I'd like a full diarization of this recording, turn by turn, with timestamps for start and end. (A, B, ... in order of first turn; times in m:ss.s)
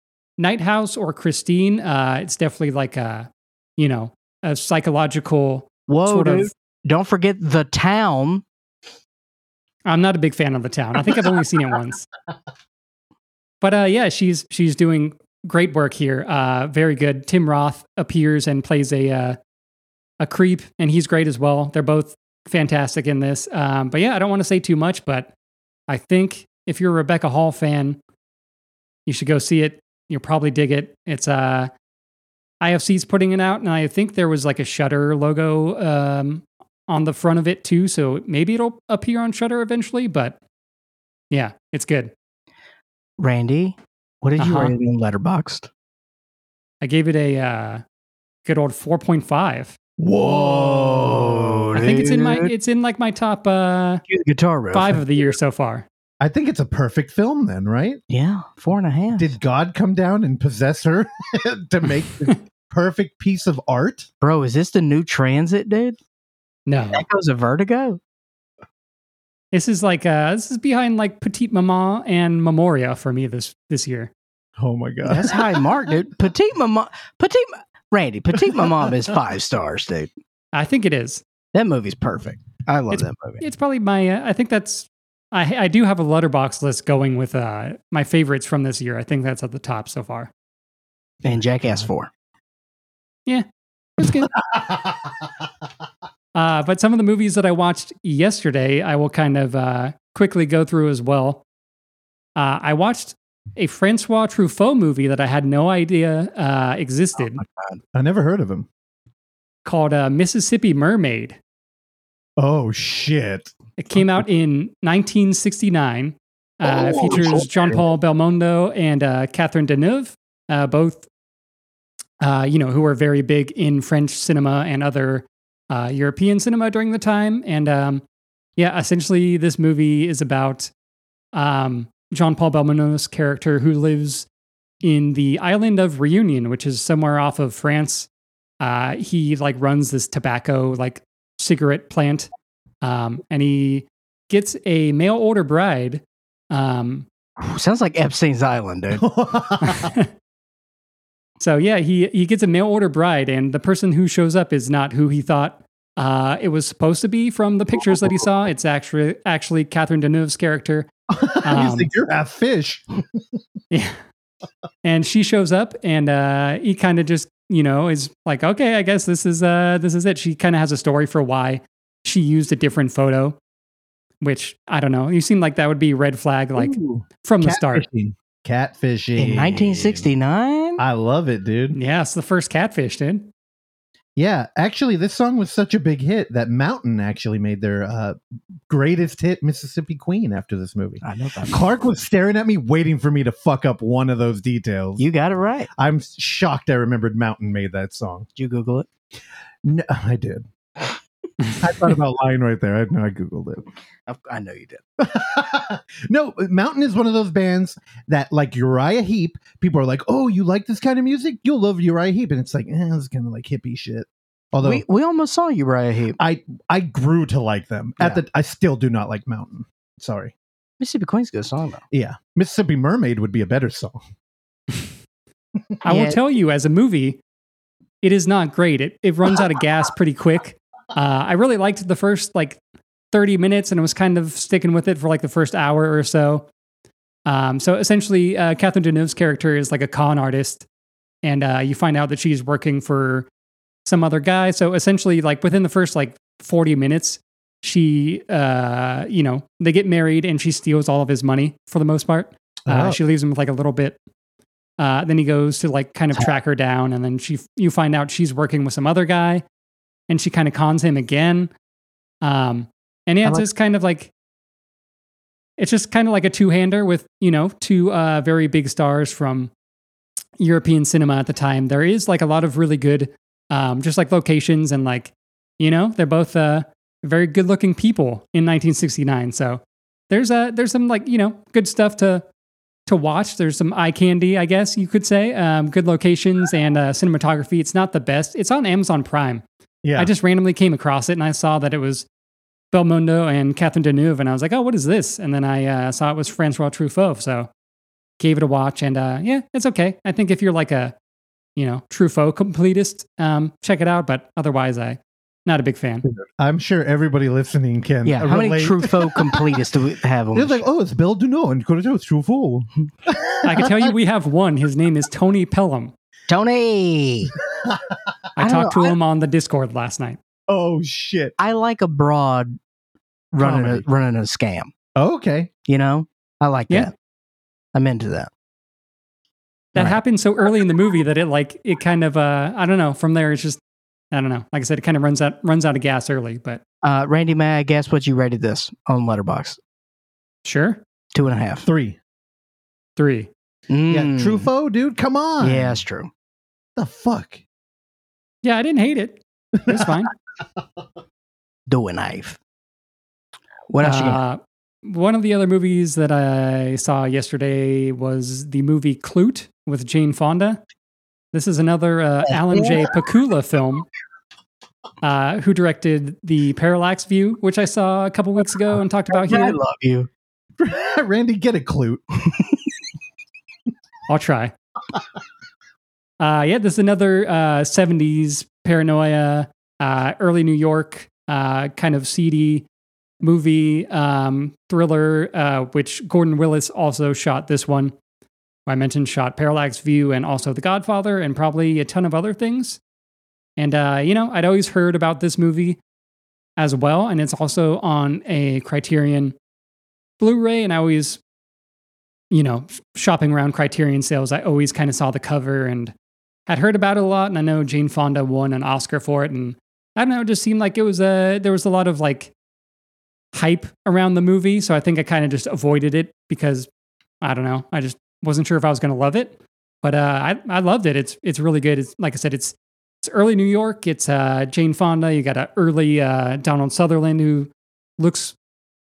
0:00.4-0:06.5 A
0:05.9-0:08.4 B
0:09.8-0:12.1 A
0:13.6-0:19.4 A
0:20.2-0:25.3 A
0:25.9-0:28.0 A
0:29.0-0:31.7 A
0:32.6-0:40.4 A
0:41.3-0:42.1 A
0:43.2-0:45.7 B
0:44.4-0:44.7 A
0:46.8-0:47.8 A
0:48.4-0:49.8 A
0:50.0-0:51.5 C
0:50.2-0:52.5 B
0:51.8-0:54.0 A
0:54.1-0:55.3 B
0:54.7-0:55.8 A
0:56.2-0:58.0 C
0:58.1-0:59.3 B
0:59.2-1:04.1 C
1:04.2-1:06.0 B
1:06.7-1:07.0 A
1:06.9-1:08.0 B
1:09.5-1:14.1 A
1:14.6-1:15.4 C
1:15.0-1:20.1 B
1:20.5-1:21.2 A
1:21.5-1:23.4 B
1:22.9-1:30.3 A
1:31.2-1:32.1 B
1:34.0-1:34.3 A
1:34.4-1:34.9 C
1:36.3-1:41.4 A
1:42.4-1:47.4 A
1:47.2-1:47.8 B
1:47.9-1:48.7 C
1:49.6-1:51.4 A
1:52.4-1:54.1 C
1:53.8-2:01.1 A
1:56.6-1:57.8 C
1:57.1-1:57.4 B
2:02.2-2:08.0 A
2:08.6-2:10.7 A
2:11.3-2:14.3 A
2:14.8-2:18.1 A
2:18.6-2:22.3 A
2:22.8-2:27.1 A
2:27.4-2:29.0 B
2:28.9-2:29.9 C
2:31.4-2:40.9 A
2:41.1-2:43.2 C
2:41.4-2:41.9 A
2:43.7-2:44.0 A
2:44.8-2:53.4 A
2:54.2-2:57.8 A
2:56.6-3:00.1 C
2:59.2-3:00.8 B
3:00.8-3:01.8 C
3:01.7-3:03.3 A
3:04.2-3:08.2 C
3:08.7-3:15.0 C
3:11.0-3:11.7 B
3:15.0-3:15.7 B
3:15.8-3:18.3 C
3:18.4-3:18.9 B
3:19.6-3:20.9 C
3:21.6-3:23.6 C
3:24.1-3:24.8 B
3:25.0-3:34.8 C
3:34.6-3:36.2 B
3:36.2-3:40.3 C
3:40.8-3:41.8 B
3:41.9-3:44.0 C
3:45.8-3:47.2 A
3:45.9-3:46.2 B
3:48.0-3:52.6 A
3:53.1-3:56.5 A
3:57.2-4:00.6 A
4:01.2-4:03.3 A
4:03.8-4:14.0 A
4:12.6-4:13.0 C
4:14.8-4:19.4 A
4:20.1-4:21.5 A
4:22.2-4:24.1 A
4:25.6-4:29.5 A
4:30.4-4:42.2 A
4:42.9-4:49.4 A
4:49.8-4:50.1 C
4:50.0-4:52.1 A
4:52.7-4:57.5 A
4:58.2-5:00.9 A
5:01.6-5:06.1 A
5:06.0-5:09.6 C
5:08.0-5:10.6 B
5:10.3-5:13.9 C
5:13.4-5:15.9 A
5:16.3-5:17.3 B
5:17.6-5:18.0 C
5:18.4-5:20.2 A
5:18.4-5:19.0 B
5:20.5-5:21.3 C
5:21.4-5:22.6 B
5:23.3-5:24.7 B
5:23.4-5:23.8 A
5:25.0-5:25.5 C
5:25.7-5:26.9 B
5:27.7-5:28.3 B
5:29.7-5:33.6 A
5:34.1-5:36.6 A
5:36.8-5:39.6 B
5:40.4-5:40.8 A
5:41.1-5:41.7 B
5:41.6-5:42.0 C
5:43.0-5:43.3 A
5:43.7-5:44.5 B
5:43.9-5:45.8 C
5:45.4-5:46.1 B
5:46.8-5:47.4 C
5:48.4-5:50.1 A
5:49.6-5:50.0 C
5:51.7-5:52.4 B
5:53.7-5:54.2 B
5:53.8-6:00.6 A
6:01.3-6:03.9 A
6:05.0-6:09.6 A
6:09.1-6:10.1 B
6:10.6-6:12.0 C
6:14.1-6:14.5 A
6:16.2-6:22.6 A
6:23.2-6:27.9 A
6:28.7-6:32.8 A
6:33.6-6:35.8 A
6:36.6-6:39.3 A
6:40.2-6:41.2 A
6:42.3-6:45.9 A
6:46.5-6:52.3 A
6:53.3-6:56.7 A
6:57.2-7:08.4 A